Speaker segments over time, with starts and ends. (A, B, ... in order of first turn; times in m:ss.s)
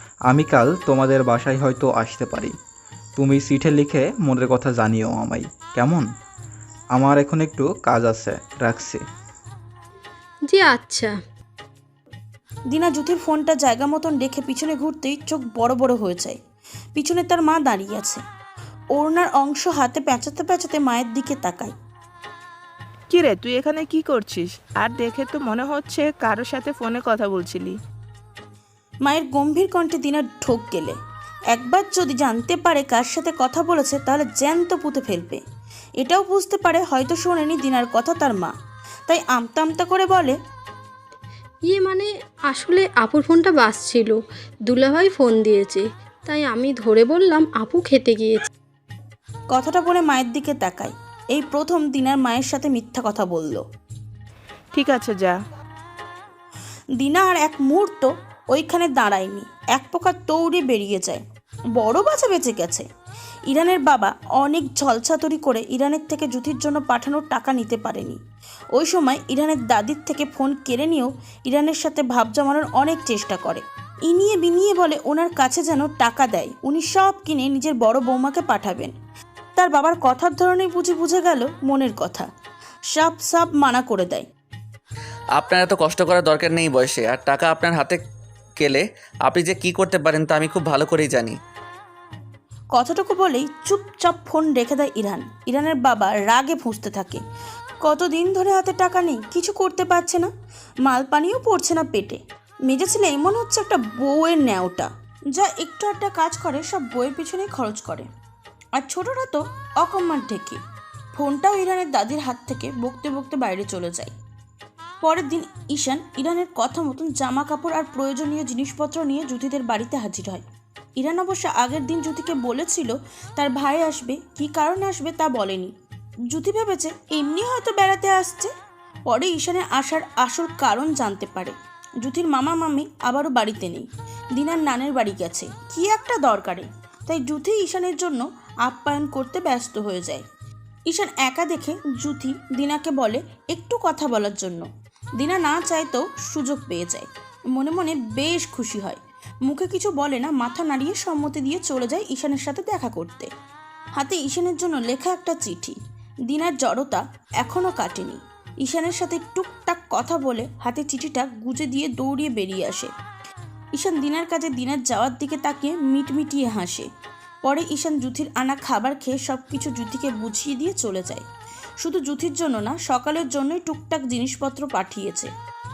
0:00.3-0:02.5 A
0:03.2-0:06.0 A
0:06.9-0:09.0 A
0:10.4-0:11.2 B
0:12.7-0:16.4 C
0:17.0-0:18.2 C
0:19.0-0:21.7 C
0:23.1-0:27.8 D
0:29.0-0:31.0 C
0:31.5-0:35.4 C
0:36.0-0:38.5 C
0:39.1-0:40.4 C
0:41.6-0:48.5 B
0:49.5-0:53.6 C
0:54.7-0:55.4 D
0:57.0-1:01.2 C
1:01.8-1:02.8 C
1:03.5-1:08.2 C
1:08.8-1:18.9 C
1:19.6-1:22.3 C
1:22.9-1:24.2 C
1:25.4-1:28.0 E
1:28.6-1:31.3 E
1:32.7-1:37.2 C
1:37.8-1:40.3 C
1:40.8-1:48.1 C
1:48.8-1:50.6 C
1:51.1-1:54.1 C
1:55.0-2:00.4 C
2:01.0-2:05.7 C
2:06.3-2:08.5 C
2:09.1-2:20.2 C
2:20.9-2:24.6 C
2:25.2-2:33.3 C
2:34.0-2:35.8 C
2:36.3-2:42.9 C
2:43.8-2:46.9 C
2:47.4-2:51.2 C
2:51.8-2:55.3 C